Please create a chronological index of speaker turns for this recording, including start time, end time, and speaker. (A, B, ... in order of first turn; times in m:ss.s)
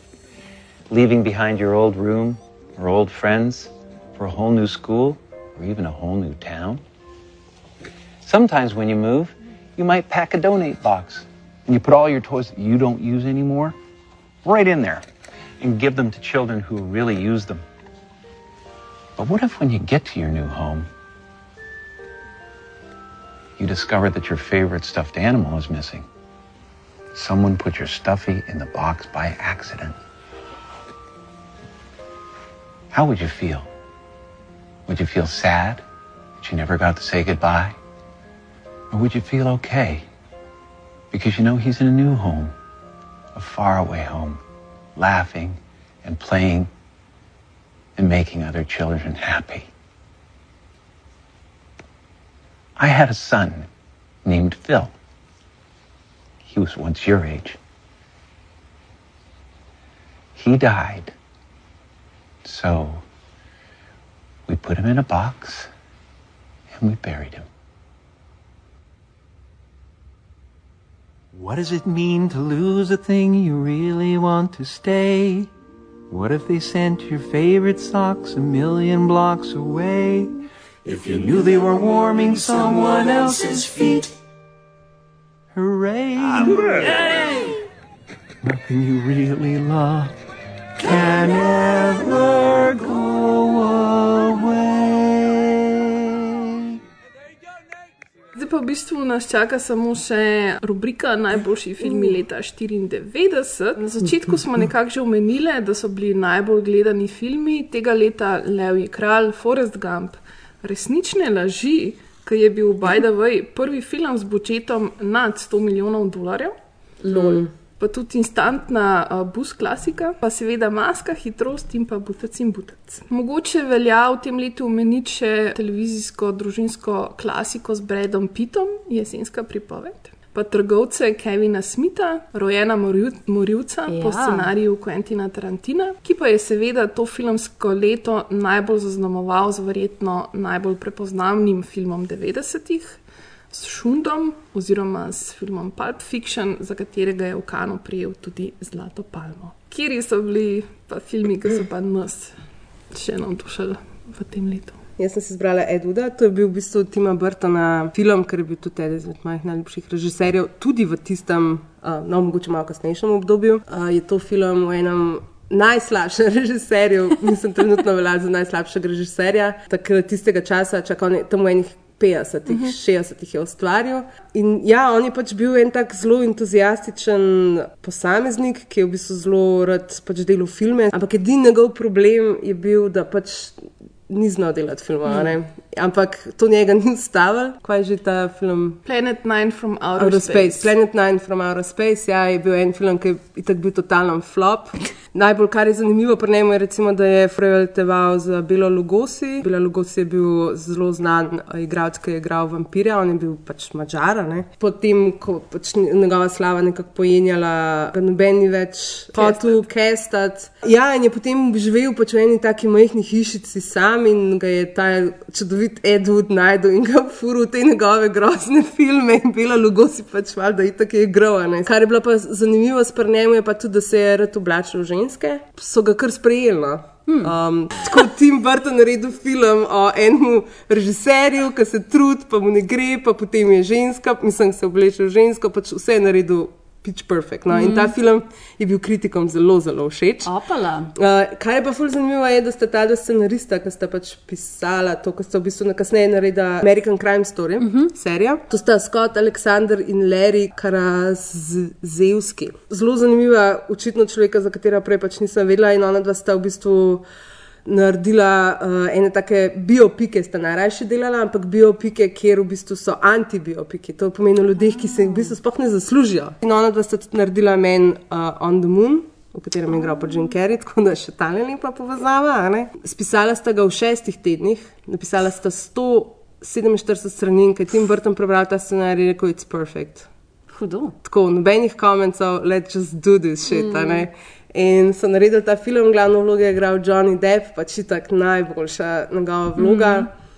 0:00.9-0:06.8 A
0:08.2-0:13.8 A
0:14.4-0:15.0 A
0:15.6-0:17.6 A
0:19.2-0:20.9 A
0:23.6-0:26.1 A
0:27.1-0:30.0 A
0:32.9-0:33.7 A
0:34.9-0:35.8 A
0:36.4-0:37.8 A
0:38.9-0:40.0 A
0:41.1-0:42.5 A
0:43.4-0:44.4 A
0:45.0-0:46.7 A
0:48.0-0:49.7 A
0:52.8-0:53.7 A
0:54.2-0:54.9 A
0:56.4-0:57.6 A
1:00.4-1:01.1 A
1:02.4-1:03.0 A
1:04.5-1:05.7 A
1:06.7-1:07.5 A
1:11.4-1:15.5 B
1:16.1-1:20.3 B
1:20.8-1:24.1 B
1:25.5-1:27.4 B
1:28.4-1:30.1 B
1:30.8-1:35.9 B
1:38.4-1:56.5 C
1:57.1-1:57.4 D
1:57.1-1:57.5 E
1:57.8-2:32.3 C
2:13.9-2:14.5 D
2:32.9-2:34.8 C
2:35.0-3:08.8 E
3:08.8-3:10.7 C
3:10.0-4:00.3 E
3:47.1-3:47.3 D
3:57.5-3:57.9 D
4:00.2-4:00.9 D
4:01.0-4:17.0 E
4:07.6-4:07.9 D
4:17.7-4:40.1 E
4:40.5-4:41.0 D
4:41.0-4:50.1 E
4:43.5-4:44.0 C
4:49.6-4:50.1 D